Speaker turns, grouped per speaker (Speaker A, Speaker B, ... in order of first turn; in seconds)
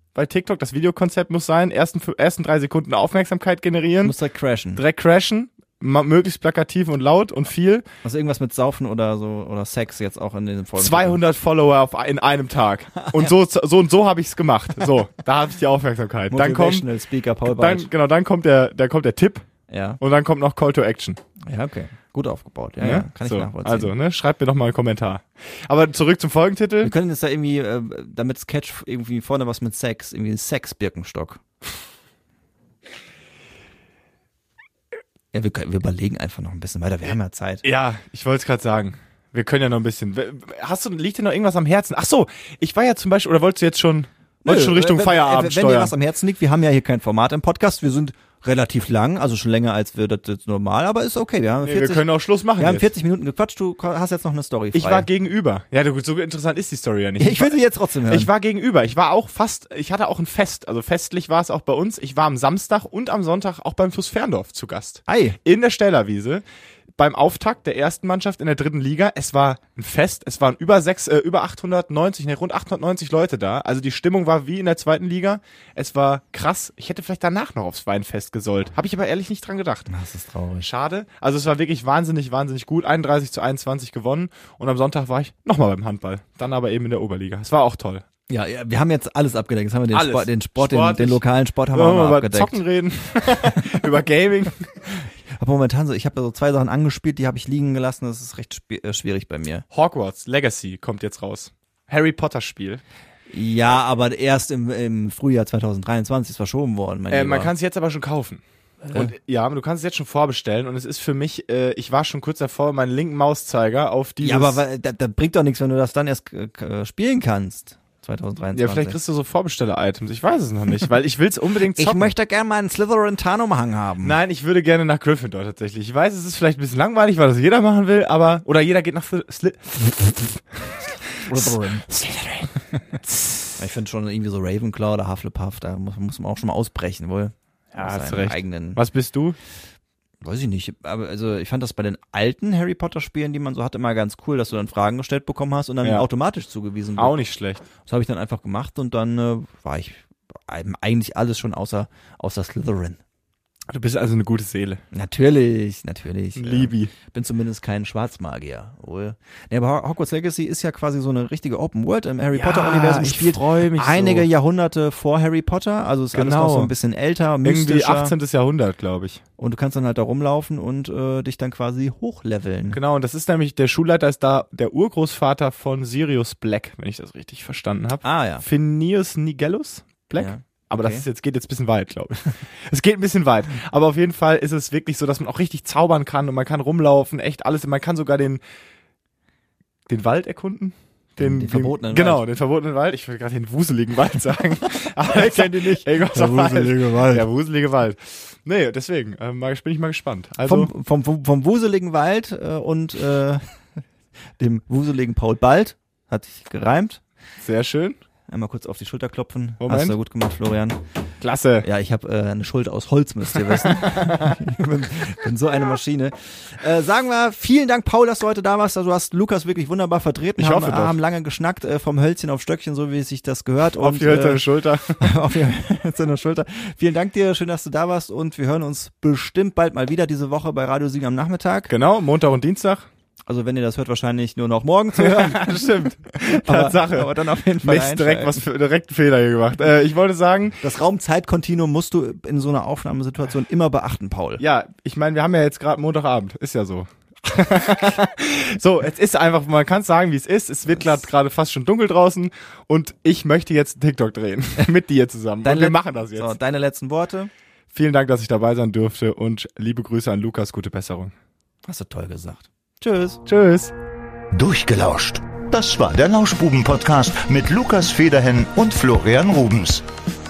Speaker A: 0.1-4.2, 4.8-7.9, 10.8-16.9, 17.4-19.5, 20.0-21.2, 22.8-26.9, 37.6-45.9, 51.6-52.9, 54.8-66.4, 67.0-79.9, 80.6-88.0, 89.9-91.2, 91.7-94.7, 99.7-102.8, 107.1-114.6, 118.5-122.1, 124.0-130.4, 131.2-133.4, 137.7-139.4, 147.0-147.6, 153.7-154.8, 156.4-156.9, 162.3-164.3, 166.1-166.7, 167.4-169.2, 172.7-188.4, 189.9-200.7, 207.4-208.0, 209.6-210.0, 211.2-211.7, 213.3-214.4, 220.4-221.0, 223.8-225.2, 231.7-232.9, 235.0-240.6, 244.4-256.3, 257.7-261.1, 263.3-263.7
Speaker B: 4.0-4.8, 8.0-11.2, 13.0-13.3, 16.3-17.9, 19.7-20.0, 21.4-23.9, 26.8-31.4, 35.3-37.6, 44.5-55.1, 57.2-58.3, 65.1-65.4, 79.9-80.7, 88.3-92.6, 93.3-93.8, 95.0-99.7, 103.3-107.5, 108.9-109.1, 114.2-119.0, 121.7-124.2, 131.2-131.9, 133.6-138.8, 140.2-147.2, 147.8-153.0, 154.9-168.2, 169.4-172.8, 178.0-178.4, 180.2-181.1, 191.2-192.2, 194.7-197.3, 200.4-203.4, 204.4-207.0, 208.3-210.8, 211.6-224.5, 225.0-231.7, 233.3-238.4, 240.6-244.4, 255.4-257.3, 261.6-263.2
Speaker C: 264.3-269.8